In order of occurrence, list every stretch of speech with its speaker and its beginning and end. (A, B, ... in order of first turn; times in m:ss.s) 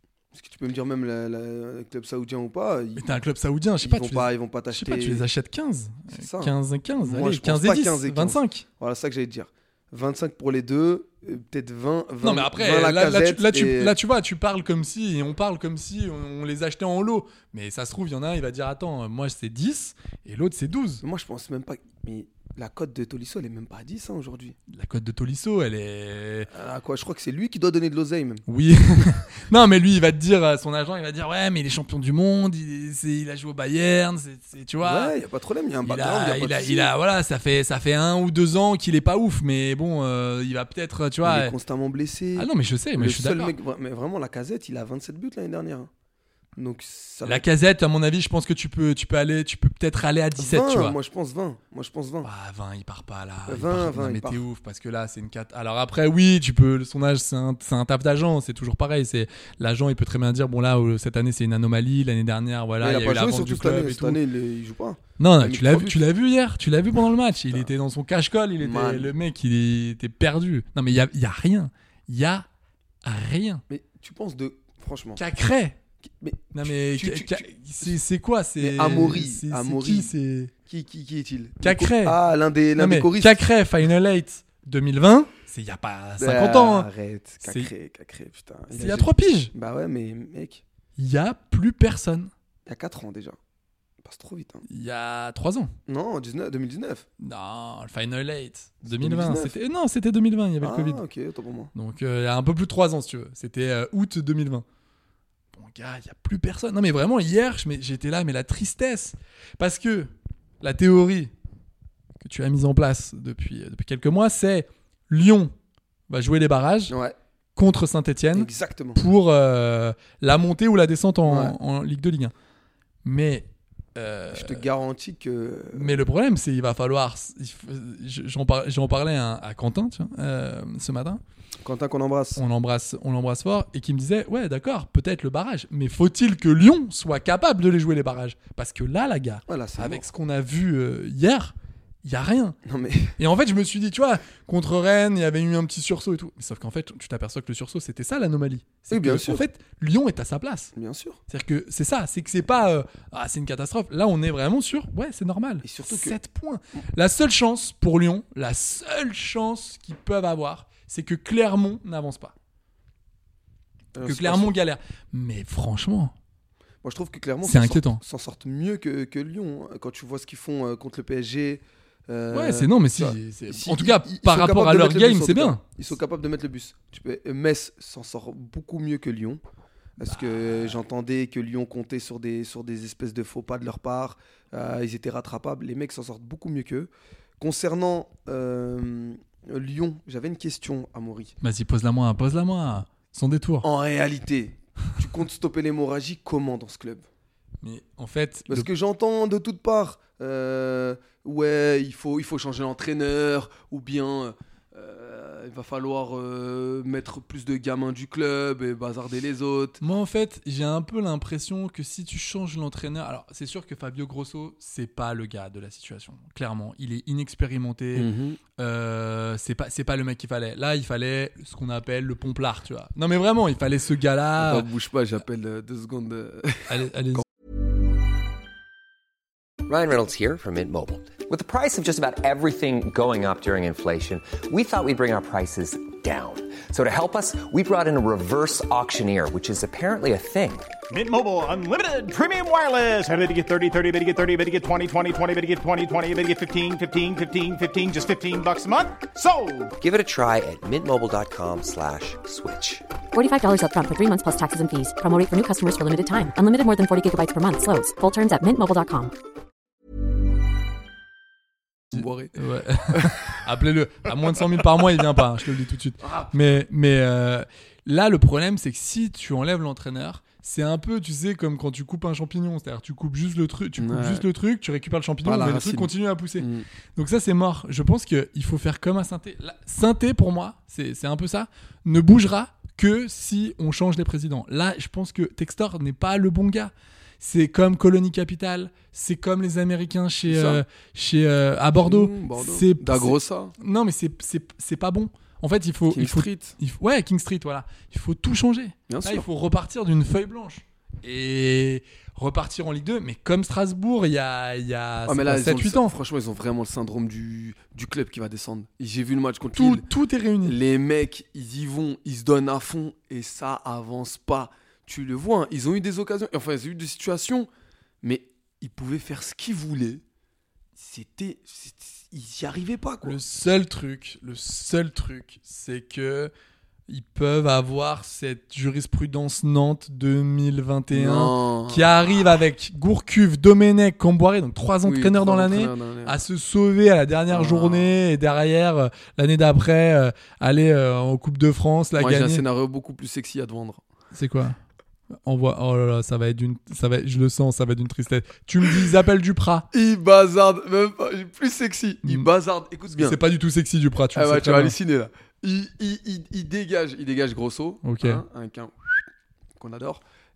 0:00.3-0:03.1 A
0:03.0-0:08.6 B
0:03.8-0:05.2 A
0:06.1-0:14.0 A
0:12.2-0:21.0 B
0:21.0-0:24.6 A
0:24.7-0:26.5 B
0:26.5-0:28.4 A
0:28.5-0:35.1 B
0:34.8-0:36.9 A
0:35.8-0:41.6 B
0:41.2-0:45.9 A
0:42.4-0:43.6 B
0:46.6-0:47.5 A
0:47.2-0:51.0 B
0:50.4-0:52.3 A
0:52.2-1:04.2 B
0:53.5-0:54.4 A
1:02.8-1:06.0 A
1:05.2-1:12.5 B
1:08.6-1:09.1 A
1:13.0-1:13.6 B
1:13.7-1:15.2 A
1:15.2-1:15.8 B
1:16.2-1:18.0 A
1:16.5-1:20.5 B
1:18.6-1:20.1 A
1:20.6-1:23.4 A
1:21.6-1:22.2 B
1:22.8-1:26.9 B
1:26.2-1:30.6 A
1:27.4-1:27.7 B
1:28.7-1:29.5 B
1:31.0-1:32.3 B
1:32.7-1:33.4 A
1:34.0-1:34.7 A
1:34.7-1:35.7 B
1:35.9-1:37.1 A
1:37.2-1:41.0 B
1:38.8-1:39.6 A
1:40.6-1:41.7 A
1:41.7-1:44.6 B
1:45.5-1:51.3 B
1:52.2-1:55.5 B
1:56.1-1:56.9 B
1:56.9-1:57.2 A
1:57.6-2:02.3 B
1:58.3-1:59.0 A
2:01.3-2:01.6 A
2:03.0-2:04.6 B
2:04.3-2:06.0 A
2:05.7-2:11.2 B
2:11.6-2:12.4 A
2:12.4-2:22.6 B
2:19.5-2:20.0 A
2:22.7-2:23.2 A
2:23.2-2:30.7 B
2:28.9-2:29.4 A
2:30.8-2:31.2 A
2:31.3-2:42.3 B
2:35.6-2:36.2 A
2:44.0-2:44.5 A
2:44.0-2:46.1 B
2:46.8-2:59.4 A
2:47.4-2:48.0 B
2:52.3-2:55.6 B
3:00.0-3:11.4 A
3:00.0-3:00.8 B
3:11.4-3:13.7 B
3:13.6-3:17.1 A
3:17.6-3:18.7 B
3:18.5-3:29.8 A
3:29.8-3:44.7 B
3:38.0-3:38.4 A
3:44.4-3:47.2 A
3:46.7-3:47.2 B
3:49.7-4:00.7 C
4:00.9-4:09.7 D
4:09.8-4:12.8 C
4:13.1-4:19.1 E
4:21.9-4:22.4 A
4:21.9-5:06.0 B
4:22.9-4:23.4 A
4:26.0-4:26.3 A
4:33.8-4:34.3 A
4:35.2-4:36.7 A
4:50.3-4:50.6 A
4:51.8-4:53.5 A
4:55.9-4:56.6 A
4:58.9-4:59.3 A
5:05.1-5:09.8 A
5:09.5-5:10.6 B
5:10.4-5:17.5 A
5:18.0-5:20.0 A
5:20.8-5:23.2 A
5:23.0-5:26.3 B
5:26.9-5:42.4 B
5:30.9-5:31.8 A
5:34.8-5:36.2 A
5:37.3-5:38.0 A
5:42.0-5:43.8 A
5:44.1-5:44.6 B
5:45.2-5:49.7 B
5:49.7-5:53.2 A
5:52.0-5:52.3 B
5:52.9-5:54.8 B
5:54.1-5:59.0 A
5:57.8-5:58.2 B
5:59.6-6:00.0 A